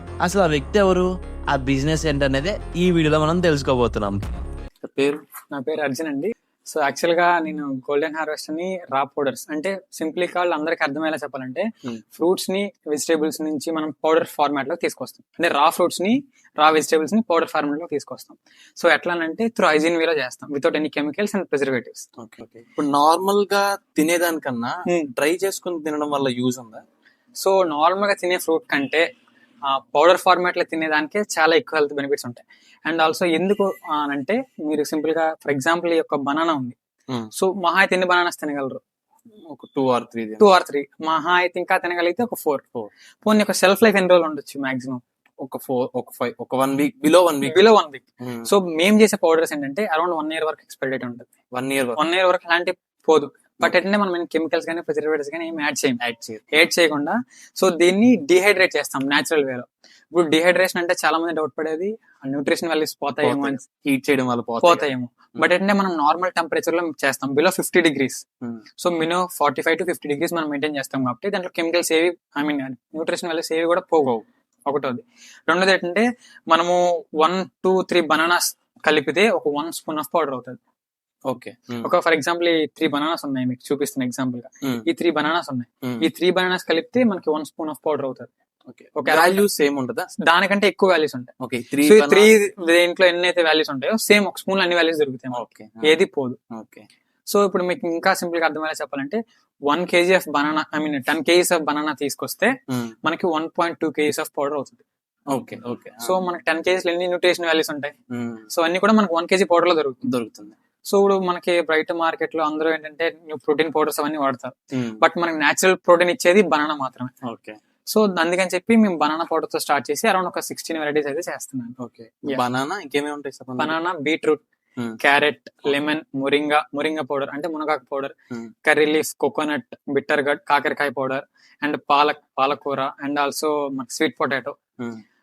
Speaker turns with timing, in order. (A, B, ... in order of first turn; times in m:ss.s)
0:00.2-0:04.2 A
0:04.8-0:05.2 B
0:05.5-0:22.0 C
0:22.2-0:26.8 B
0:27.4-0:29.0 C
0:29.7-0:36.8 C
0:37.3-0:38.8 C
0:39.5-0:40.5 B
0:40.4-0:42.6 C
0:43.2-0:45.0 C
0:45.4-0:47.7 B
0:47.4-0:51.3 C
0:48.2-0:48.5 B
0:51.5-0:52.0 B
0:52.0-0:56.0 C
0:56.0-0:56.5 B
0:56.5-1:03.6 C
1:03.2-1:05.5 B
1:04.6-1:08.2 C
1:08.8-1:20.6 C
1:21.3-1:21.9 B
1:21.8-1:28.3 C
1:28.7-1:30.1 B
1:29.0-1:29.5 C
1:30.2-1:36.4 C
1:31.4-1:32.4 B
1:35.3-1:36.0 B
1:36.5-1:36.9 B
1:37.3-1:42.5 C
1:42.7-1:42.9 B
1:43.0-1:44.8 C
1:45.3-1:46.2 B
1:46.0-1:47.9 C
1:48.1-1:48.5 B
1:48.5-1:50.0 C
1:50.0-1:50.6 B
1:50.8-1:57.1 C
1:54.7-1:55.0 B
1:57.2-1:57.6 B
1:57.9-2:01.8 C
2:01.8-2:03.8 B
2:03.6-2:04.4 C
2:05.0-2:14.6 C